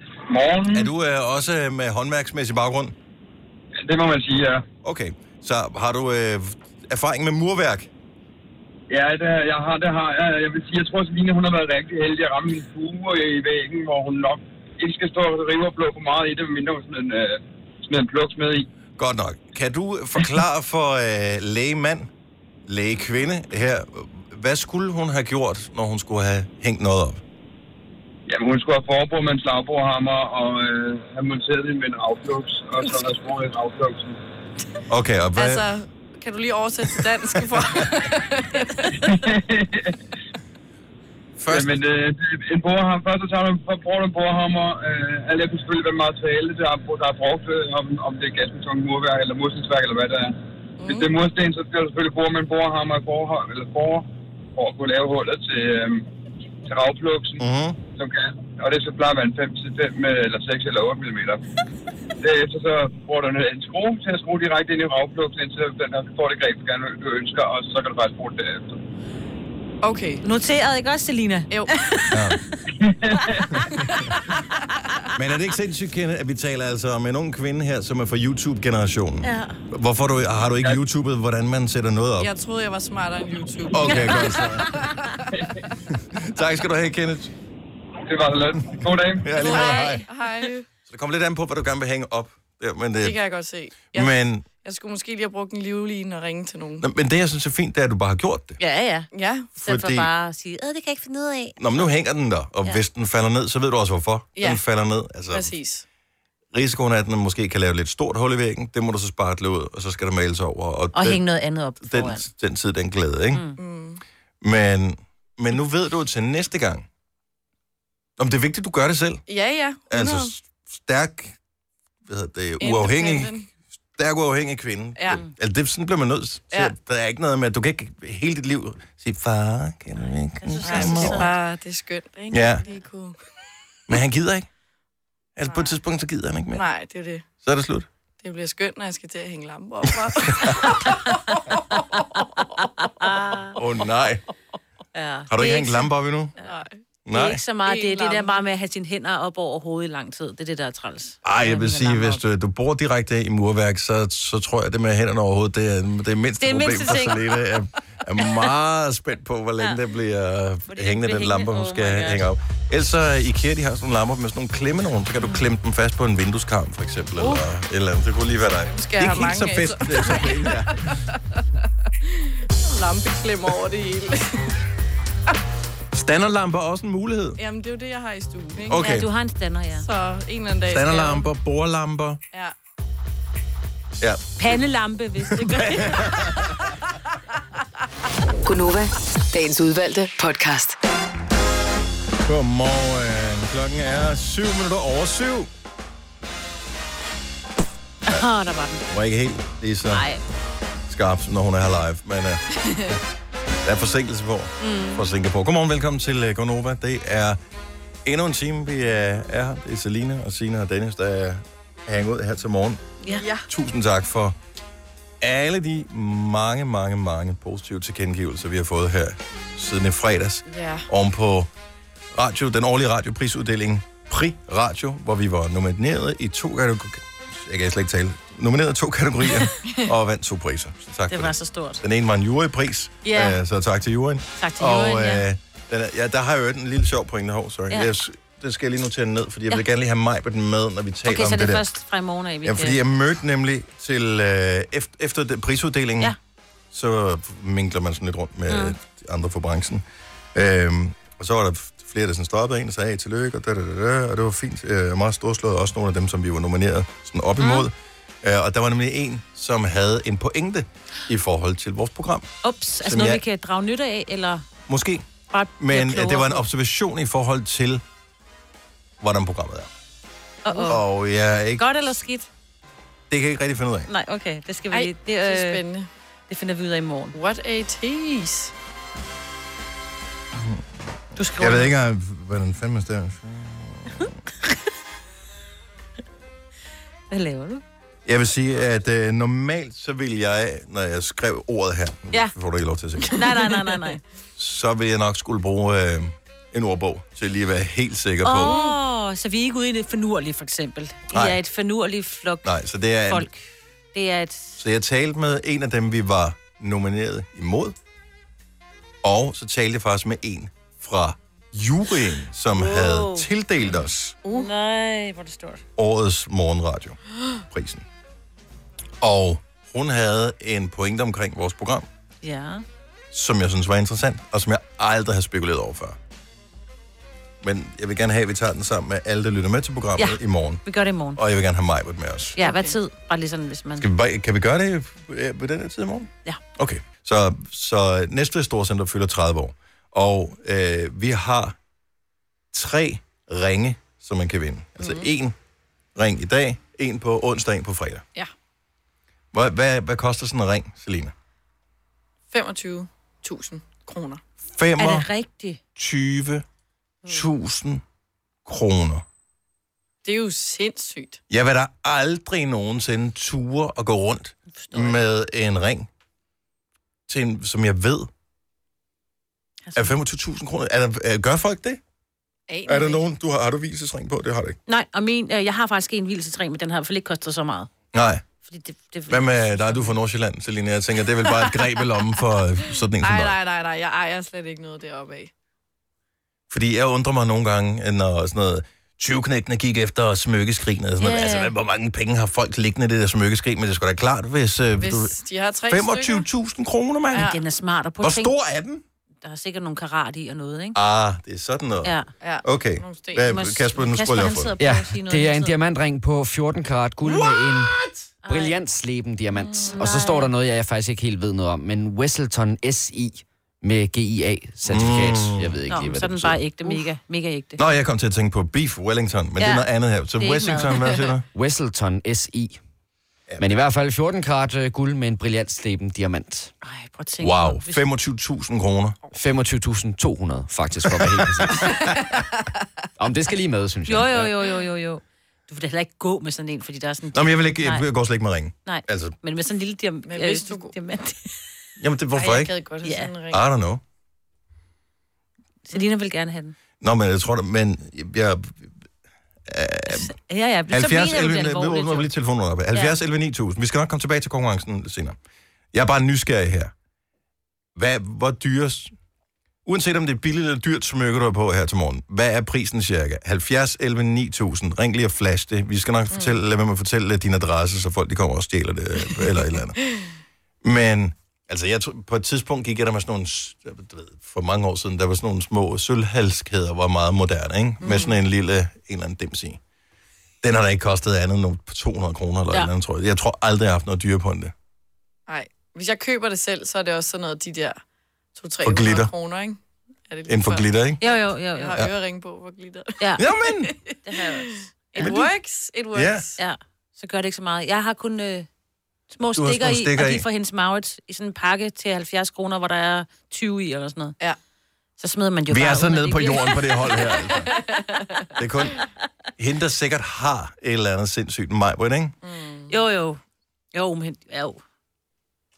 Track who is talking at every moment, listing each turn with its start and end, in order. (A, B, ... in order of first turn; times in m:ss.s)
0:00.3-0:00.9 A
0:00.7-0:02.9 B
0:03.8-0:04.6 A
0:04.8-0:07.9 B
0:08.9-0:18.7 A
0:19.0-0:22.1 B
0:22.7-0:27.2 B
0:28.3-0:34.2 A
0:34.9-0:35.6 B
0:35.4-0:39.2 C
0:39.0-0:40.0 A
0:41.4-0:41.8 B
0:41.5-0:56.0 A
0:50.8-0:51.1 C
0:56.6-0:57.4 A
0:57.4-0:57.8 B
0:57.9-1:01.4 A
1:02.2-1:08.8 A
1:09.8-1:10.2 C
1:10.2-1:12.4 D
1:11.5-1:11.8 C
1:12.1-1:12.4 B
1:12.8-1:13.4 A
1:14.5-1:15.0 D
1:15.2-1:22.3 B
1:19.2-1:19.6 D
1:22.2-1:25.2 C
1:23.7-1:24.8 B
1:23.9-1:24.4 D
1:25.9-1:27.3 B
1:28.1-1:29.4 A
1:29.2-1:30.1 B
1:29.4-1:30.7 C
1:29.5-1:30.0 D
1:30.9-1:33.2 B
1:33.0-1:36.8 C
1:33.9-1:34.4 B
1:36.8-1:38.6 B
1:38.6-1:41.6 D
1:39.1-1:39.5 C
1:39.6-1:40.1 B
1:41.6-1:45.5 B
1:44.4-1:44.6 C
1:45.3-1:45.8 C
1:46.5-1:51.2 B
1:50.9-1:52.3 D
1:51.8-1:53.4 B
1:53.6-1:54.0 C
1:54.4-1:56.9 B
1:58.2-1:59.2 B
1:59.3-2:00.3 C
1:59.9-2:01.4 B
2:02.1-2:03.3 B
2:02.6-2:03.5 C
2:04.0-2:11.3 B
2:10.4-2:11.3 D
2:10.6-2:13.2 C
2:12.3-2:12.6 B
2:13.9-2:14.5 B
2:15.4-2:16.6 B
2:15.4-2:15.7 C
2:16.5-2:17.3 C
2:17.4-2:17.9 B
2:18.2-2:22.2 C
2:20.1-2:20.8 B
2:22.1-2:23.6 D
2:23.6-2:24.2 B
2:24.9-2:25.9 D
2:25.3-2:26.3 B
2:26.4-2:26.8 C
2:27.1-2:27.4 B
2:27.1-2:32.2 D
2:27.6-2:28.4 C
2:31.2-2:51.0 B
2:36.4-2:37.2 D
2:40.7-2:42.3 D
2:47.2-2:47.4 C
2:48.7-2:51.4 C
2:52.0-2:54.5 C
2:55.9-2:57.4 B
2:57.4-2:58.8 C
2:58.6-2:59.1 B
2:58.7-2:59.8 D
2:59.8-3:01.3 C
3:00.7-3:02.2 B
3:04.4-3:06.1 D
3:05.3-3:06.5 B
3:08.4-3:10.8 E
3:12.3-3:15.5 B
3:18.1-3:18.8 D
3:18.9-3:20.0 B
3:19.9-3:20.2 D
3:20.9-3:22.9 B
3:22.6-3:22.9 C
3:23.6-3:27.4 B
3:24.6-3:24.9 C
3:28.0-3:32.8 B
3:33.1-3:33.4 C
3:33.5-3:34.4 B
3:35.2-3:41.5 B
3:40.5-3:40.9 C
3:42.1-4:01.6 B
3:49.6-3:49.9 C
3:51.1-3:51.8 D
3:53.1-3:53.4 D
3:54.4-3:55.2 D
4:01.1-4:02.8 D
4:02.4-4:06.1 B
4:06.7-4:22.3 B
4:08.5-4:08.8 D
4:17.4-4:17.6 D
4:22.4-4:24.4 D
4:22.8-4:23.2 B
4:24.7-4:25.1 B
4:25.3-4:26.4 D
4:25.6-4:27.8 B
4:29.0-4:29.7 B
4:30.4-4:30.8 D
4:30.5-4:30.8 C
4:30.7-4:31.6 B
4:31.6-4:32.3 D
4:33.1-4:33.9 B
4:33.9-4:35.6 D
4:34.7-4:35.9 C
4:36.3-4:37.2 D
4:37.1-4:38.5 C
4:40.4-4:40.6 B
4:41.2-4:41.7 D
4:41.3-4:44.1 B
4:47.1-4:47.6 D
4:48.1-4:53.2 B
4:53.1-4:54.0 D
4:54.4-4:58.6 B
4:58.2-5:02.5 D
4:58.4-4:58.8 C
5:01.1-5:01.4 B
5:02.4-5:03.3 B
5:03.1-5:03.4 D
5:03.9-5:04.6 D
5:04.6-5:07.8 B
5:09.0-5:14.2 B
5:12.6-5:13.7 D
5:14.2-5:14.5 C
5:14.3-5:15.6 D
5:15.8-5:17.0 B
5:17.5-5:17.8 B
5:19.0-5:21.9 B
5:22.2-5:22.6 D
5:23.1-5:26.0 B
5:27.4-5:30.6 B
5:30.0-5:31.2 D
5:31.1-5:32.4 B
5:32.4-5:33.9 D
5:32.4-5:32.8 C
5:33.8-5:41.6 B
5:42.5-5:45.4 B
5:44.8-5:45.1 C
5:46.0-5:48.0 B
5:49.3-5:51.1 B
5:52.3-5:54.2 C
5:54.4-5:55.1 B
5:54.8-5:55.6 D
5:55.8-5:56.4 B
5:57.1-5:57.8 B
5:58.4-5:59.0 B
6:00.0-6:01.2 C
6:01.3-6:05.9 B
6:04.6-6:05.0 D
6:07.1-6:08.1 B
6:09.7-6:10.0 D
6:09.8-6:11.8 B
6:12.5-6:13.0 C
6:12.7-6:14.6 B
6:14.7-6:17.7 D
6:17.9-6:18.2 B
6:18.4-6:19.9 D
6:19.1-6:23.4 B
6:23.0-6:25.3 C
6:26.5-6:35.1 B
6:31.0-6:31.5 D
6:34.8-6:36.3 C
6:35.7-6:37.3 B
6:37.1-6:37.4 C
6:37.1-6:38.3 D
6:38.0-6:38.8 B
6:39.2-6:40.8 D
6:40.8-6:44.5 B
6:42.2-6:43.3 C
6:43.3-6:45.6 D
6:44.6-6:47.7 F
6:48.2-6:48.6 D
6:48.3-6:56.4 F
6:49.4-6:49.8 C
6:49.7-6:50.3 D
6:54.7-6:55.6 B
6:55.7-6:57.6 D
6:57.6-7:01.2 B
6:59.4-7:01.1 D
7:01.3-7:02.6 F
7:03.3-7:03.6 B
7:03.4-7:06.5 F
7:06.6-7:07.8 D
7:07.2-7:09.0 B
7:09.1-7:11.8 F
7:11.6-7:12.0 C
7:13.0-7:14.3 F
7:13.9-7:17.8 D
7:17.1-7:19.2 B
7:18.6-7:21.3 D
7:20.1-7:20.8 C
7:21.8-7:22.5 B
7:22.2-7:23.4 C
7:22.8-7:23.1 D
7:23.3-7:23.8 B
7:25.7-7:26.6 D
7:26.8-7:28.7 B
7:29.5-7:30.1 B
7:29.9-7:32.1 D
7:30.7-7:35.2 B
7:35.7-7:36.7 B
7:37.8-7:38.9 B
7:39.6-7:49.8 B
7:46.1-7:46.4 C
7:49.8-7:50.1 C
7:50.6-7:59.6 B
7:57.8-7:58.2 C
8:00.4-8:04.5 B
8:05.3-8:07.8 C
8:08.4-8:13.0 C
8:08.6-8:09.1 B
8:10.3-8:11.0 B
8:11.0-8:11.8 D
8:13.0-8:13.3 D
8:13.2-8:13.7 B
8:13.5-8:16.4 C
8:14.0-8:15.2 D
8:15.0-8:15.3 B
8:15.9-8:16.3 B
8:16.4-8:18.5 D
8:19.1-8:24.2 D
8:19.4-8:20.3 B
8:25.0-8:27.0 D
8:25.5-8:27.5 B
8:27.4-8:28.2 C
8:28.4-8:28.8 B
8:29.4-8:32.2 B
8:32.2-8:32.7 C
8:32.7-8:33.2 D
8:33.7-8:34.6 D